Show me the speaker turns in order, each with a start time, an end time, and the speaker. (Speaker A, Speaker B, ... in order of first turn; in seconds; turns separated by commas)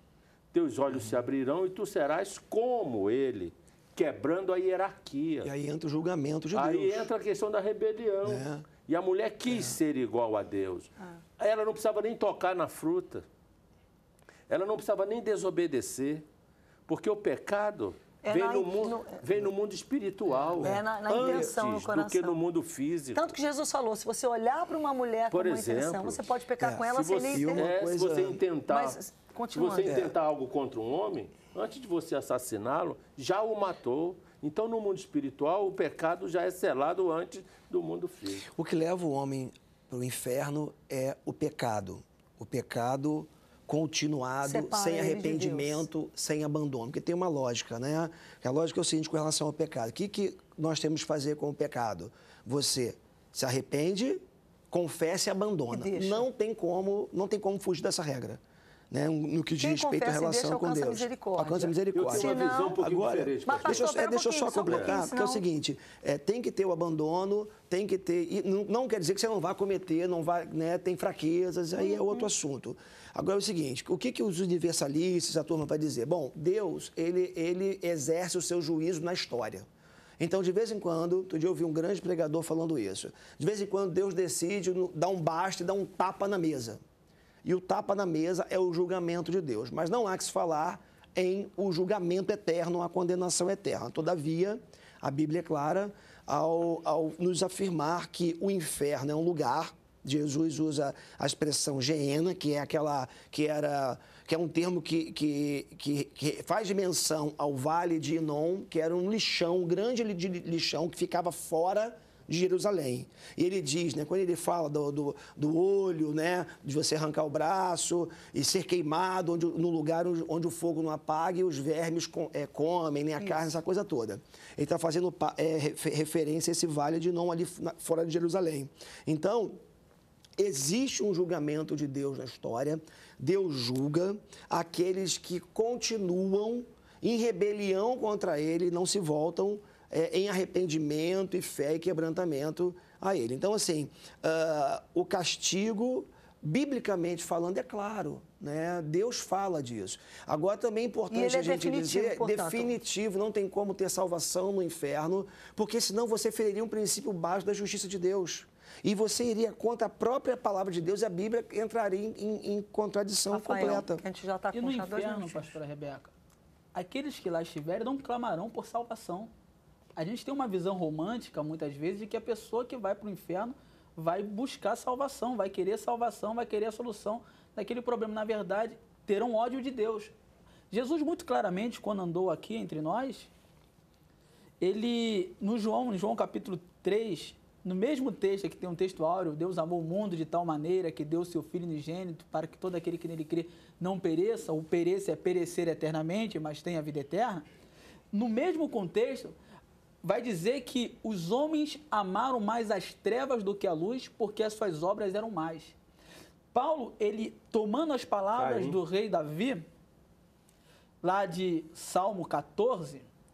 Speaker A: 0.5-5.5, Speaker B: 5.4-7.1, Speaker A: 6.5-13.2, Speaker B: 8.2-8.7, Speaker B: 9.5-9.8, Speaker A: 14.5-16.2, Speaker A: 16.9-23.3, Speaker C: 18.2-19.2, Speaker C: 20.5-22.4, Speaker B: 20.6-21.3, Speaker C: 23.1-27.7, Speaker A: 25.3-29.0, Speaker B: 26.6-28.4, Speaker C: 28.7-30.1, Speaker A: 29.5-38.5, Speaker B: 29.8-30.1, Speaker B: 38.5-79.7, Speaker C: 44.4-45.9, Speaker C: 55.7-56.2, Speaker C: 59.6-62.8, Speaker A: 61.9-63.9, Speaker C: 63.5-65.4, Speaker A: 64.7-65.0, Speaker C: 71.8-72.3, Speaker B: 80.2-86.8, Speaker B: 87.4-129.6, Speaker B: 130.4-164.0, Speaker C: 151.1-152.7, Speaker C: 163.3-165.5, Speaker D: 164.5-166.1, Speaker D: 166.7-169.3, Speaker D: 169.9-180.1, Speaker D: 180.7-183.3, Speaker D: 184.6-197.4, Speaker D: 198.1-199.3, Speaker D: 200.0-205.7, Speaker D: 206.5-209.7, Speaker A: 208.4-208.8, Speaker D: 211.0-213.1